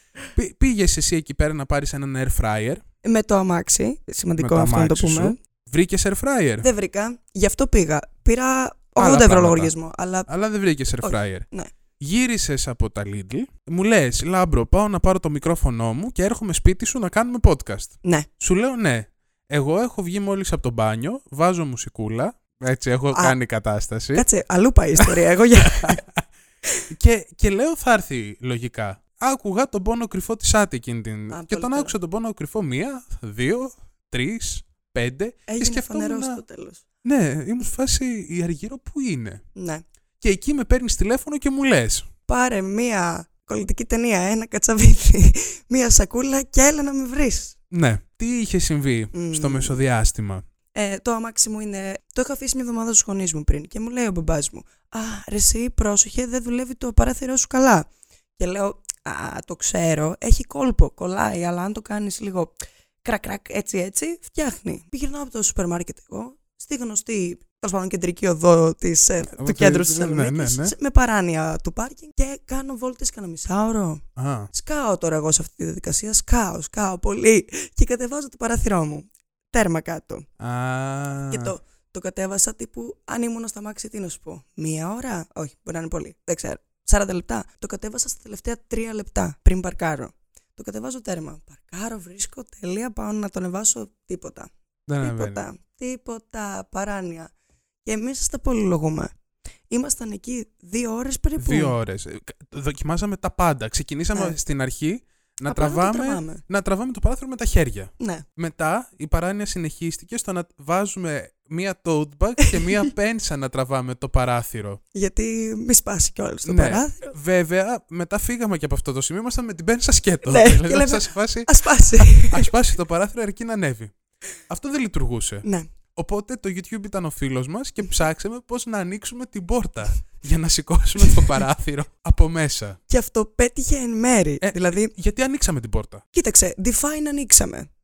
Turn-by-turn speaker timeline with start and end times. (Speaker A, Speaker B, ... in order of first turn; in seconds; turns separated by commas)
Speaker A: 0.3-2.8, Speaker B: 3.0-5.4, Speaker A: 4.4-6.7, Speaker B: 6.6-10.3, Speaker A: 9.0-9.7, Speaker A: 10.3-11.5, Speaker B: 11.0-11.7, Speaker A: 12.0-24.2, Speaker B: 18.0-18.3, Speaker B: 24.1-26.0, Speaker A: 25.7-26.2, Speaker A: 26.9-36.4, Speaker B: 31.3-32.0, Speaker B: 35.5-36.8, Speaker A: 37.0-39.4, Speaker B: 39.5-39.8, Speaker A: 40.2-42.1, Speaker B: 42.3-47.6, Speaker A: 47.7-50.4, Speaker B: 49.1-49.8, Speaker B: 50.7-80.3, Speaker A: 69.3-70.7, Speaker A: 74.2-74.5, Speaker A: 80.4-81.5, Speaker B: 81.3-94.5, Speaker A: 94.9-95.5, Speaker B: 95.0-97.3, Speaker B: 97.8-99.1, Speaker B: 99.7-101.8, Speaker A: 101.4-114.8, Speaker B: 105.5-106.4, Speaker B: 108.0-108.2, Speaker B: 114.9-117.2, Speaker A: 116.5-123.9, Speaker B: 120.3-122.5, Speaker A: 124.5-132.8, Speaker B: 125.4-125.7, Speaker B: 132.9-134.9, Speaker A: 134.4-136.0, Speaker B: 136.1-137.7